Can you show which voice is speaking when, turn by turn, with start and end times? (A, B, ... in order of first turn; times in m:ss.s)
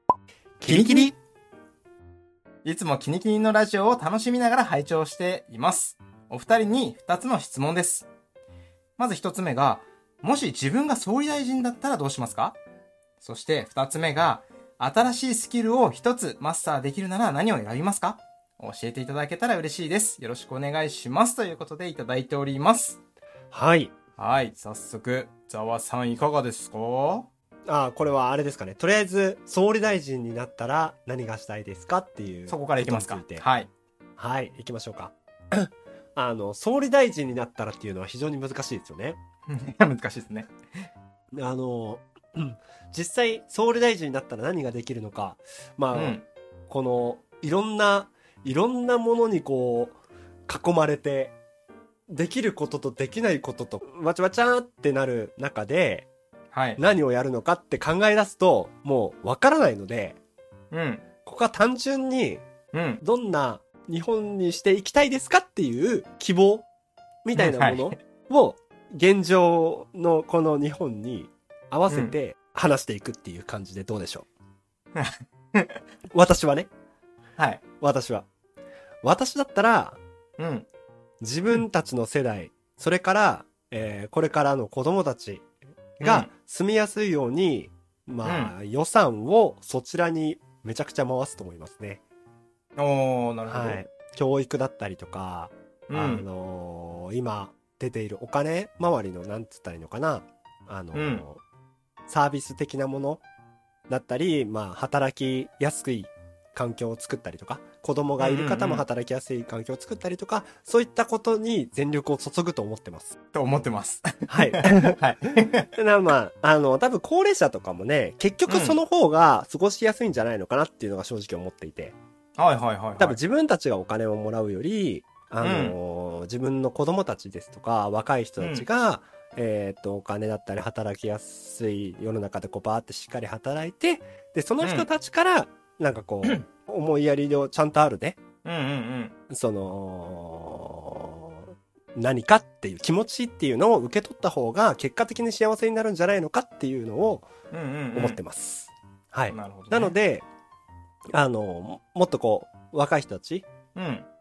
0:00.6-0:01.1 A
0:00.6-0:01.1 B
0:02.6-0:08.1 B
0:09.0-0:12.6 B
0:13.2-0:23.0 B
0:23.5-0:24.0 A
0:24.2-0:27.3 B
0:27.7-0:33.4 A
0:32.5-0:33.7 B
0:34.2-0:39.2 A
0:39.5-0:40.5 B
0:41.3-0:50.0 A
0:45.9-0:46.2 B
0:50.5-0:51.3 A
0:52.1-0:56.1 A
0:56.5-0:56.8 B
0:56.8-1:00.2 A
1:00.7-1:01.0 B
1:01.2-1:02.4 A
1:02.7-1:03.0 B
1:03.0-1:06.6 A
1:07.2-1:14.3 A
1:07.3-1:08.0 B
1:11.9-1:12.2 B
1:14.9-1:15.8 B
1:16.1-1:16.7 A
1:17.4-1:17.6 B
1:17.8-1:18.2 A
1:19.0-1:20.0 A
1:20.4-1:20.6 B
1:21.2-1:25.4 A
1:26.0-1:32.0 A
1:26.0-1:26.3 B
1:28.2-1:28.5 B
1:32.8-1:33.8 B
1:33.4-1:41.4 A
1:35.9-1:36.2 B
1:40.9-1:41.2 B
1:42.1-1:43.2 A
1:43.9-1:53.1 A
1:48.2-1:48.8 B
1:53.3-1:55.7 B
1:54.3-2:02.0 A
1:58.4-1:58.8 B
2:02.4-2:03.2 B
2:03.0-2:18.2 A
2:05.4-2:05.8 B
2:08.4-2:08.7 B
2:14.6-2:14.9 B
2:18.4-2:19.1 B
2:19.3-2:27.3 A
2:27.5-2:28.2 B
2:27.9-2:30.2 A
2:29.3-2:29.9 B
2:31.1-2:33.4 A
2:33.7-2:34.0 B